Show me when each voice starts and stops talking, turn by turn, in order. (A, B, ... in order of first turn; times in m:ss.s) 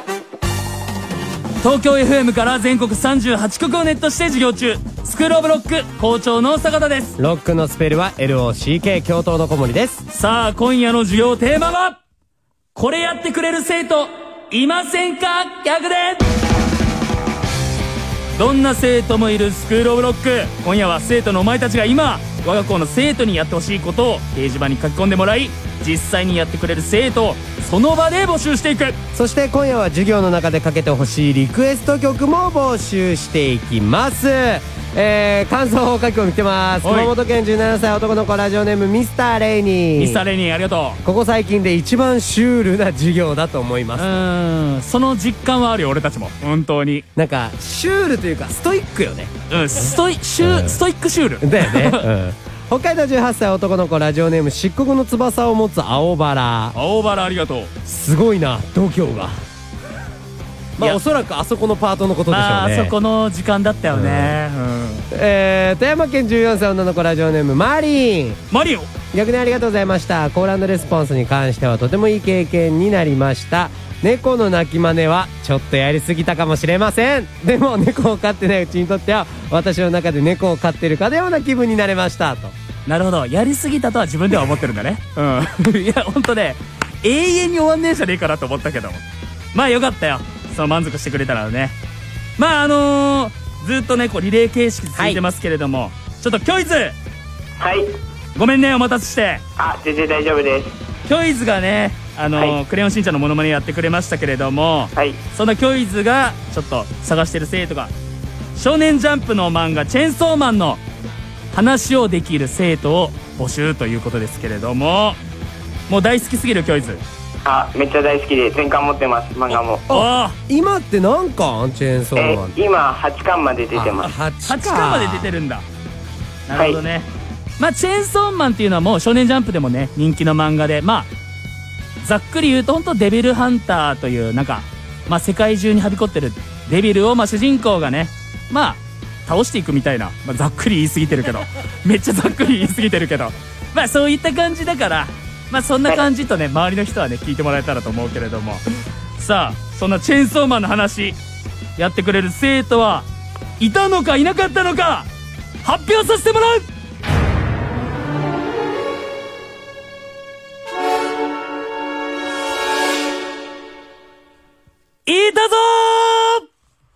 0:01.6-0:07.2 A
0:07.2-0:10.0 B
0:10.1-0:12.0 A
0:12.8-0:16.2 A
0:18.4-0:29.0 A
0:29.1-0:40.2 B
0:36.8-0:37.1 A
0:40.0-0:41.0 A
0:41.0-0:44.1 B
0:44.0-0:47.1 A
0:47.2-0:50.8 B
0:49.5-0:52.0 A
0:51.4-0:56.8 B
0:56.8-0:57.7 A
0:57.8-0:59.4 B
1:00.8-1:02.9 B
1:02.3-1:05.0 A
1:03.9-1:04.4 B
1:05.1-1:08.4 B
1:08.5-1:08.9 A
1:09.1-1:22.6 B
1:22.9-1:29.0 A
1:29.5-1:31.8 A
1:32.4-1:37.0 A
1:35.0-1:35.2 B
1:37.6-1:37.9 C
1:38.4-1:39.4 A
1:39.6-1:40.8 C
1:41.1-1:47.9 A
1:48.6-1:50.8 A
1:51.5-1:55.2 A
1:55.9-1:57.0 A
1:57.4-1:59.8 C
1:59.9-2:00.4 A
1:59.9-2:02.6 B
2:02.2-2:04.1 C
2:03.8-2:05.3 B
2:04.5-2:05.6 A
2:06.5-2:07.1 A
2:06.5-2:06.8 C
2:07.6-2:11.1 A
2:12.0-2:28.6 A
2:29.2-2:31.2 A
2:31.8-2:33.1 A
2:33.6-2:35.1 A
2:35.6-2:36.6 A
2:45.1-2:46.4 A